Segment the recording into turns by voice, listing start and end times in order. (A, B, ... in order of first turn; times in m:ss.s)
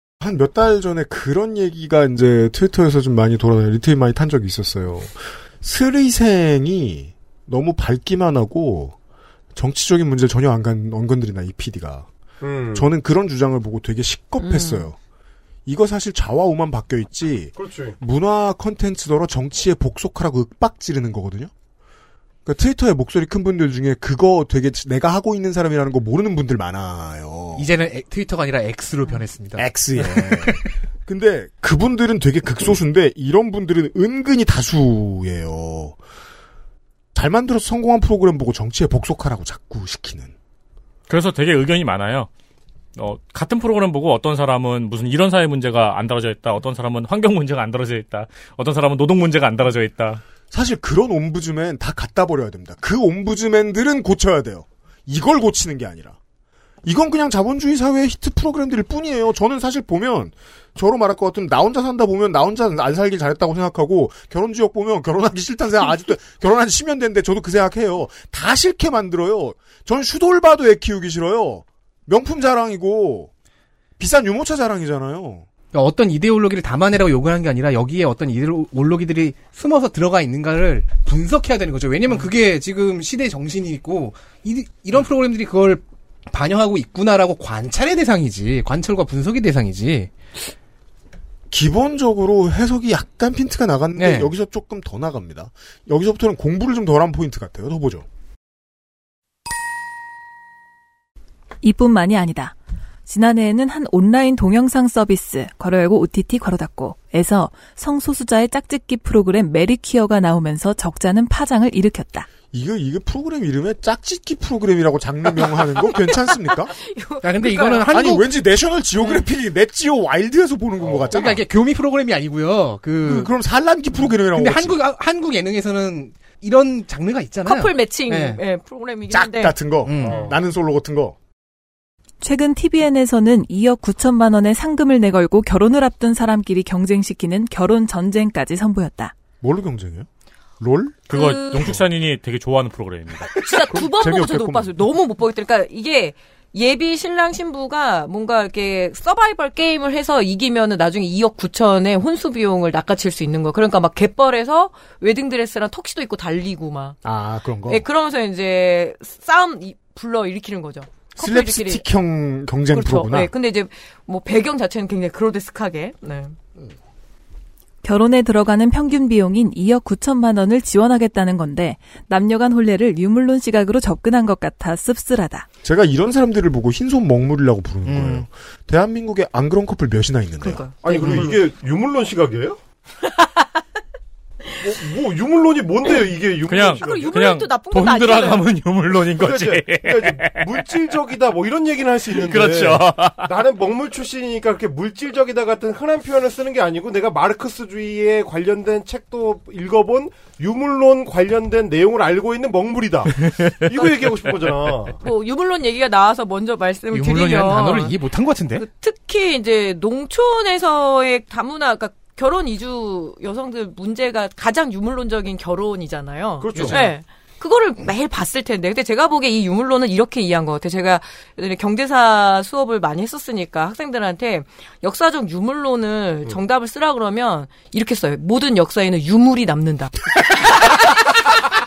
0:00.2-0:09.0 A
0:09.5-0:12.1 A
0:12.4-0:12.9 B
0:12.7-0:15.0 A
0:14.4-0:14.9 C
0:15.7-0:21.5 A
0:17.6-0:18.0 B
0:22.4-0:27.7 A
0:27.6-0:30.7 D
0:29.6-0:36.0 A
0:37.1-0:40.3 A
0:41.1-0:42.3 E
0:43.0-0:50.2 E
0:50.5-0:56.2 A
0:56.8-1:13.3 A
1:14.0-1:15.5 A
1:15.7-1:30.1 D
1:31.5-1:38.0 A
1:34.0-1:34.3 D
1:41.6-1:42.5 F
1:43.1-1:52.3 F
1:52.5-1:56.8 A
1:55.9-1:57.9 C
1:57.2-1:58.3 D
1:57.9-2:01.4 A
1:59.0-1:59.2 C
2:00.8-2:01.1 B
2:01.1-2:03.3 D
2:03.0-2:04.8 A
2:04.0-2:08.4 D
2:07.4-2:09.6 C
2:09.1-2:11.2 A
2:09.8-2:10.3 D
2:10.0-2:10.4 B
2:12.2-2:19.1 F
2:19.4-2:20.1 A
2:20.6-2:21.8 A
2:21.1-2:23.3 E
2:21.1-2:21.8 C
2:23.3-2:37.0 C
2:23.7-2:24.8 A
2:37.0-2:37.8 A
2:37.6-2:41.8 C
2:41.2-2:43.3 A
2:42.7-2:46.4 C
2:47.8-2:55.5 F
2:55.6-3:01.3 A
2:57.8-2:58.2 D
3:00.4-3:01.2 C
3:00.8-3:02.6 B
3:03.0-3:03.5 C
3:04.6-3:07.3 B
3:06.5-3:10.7 E
3:06.8-3:08.6 C
3:09.2-3:25.0 B
3:12.1-3:13.3 E
3:25.0-3:28.0 C
3:26.9-3:28.7 D
3:28.5-3:50.0 C
3:36.4-3:36.9 B
3:36.5-3:36.8 D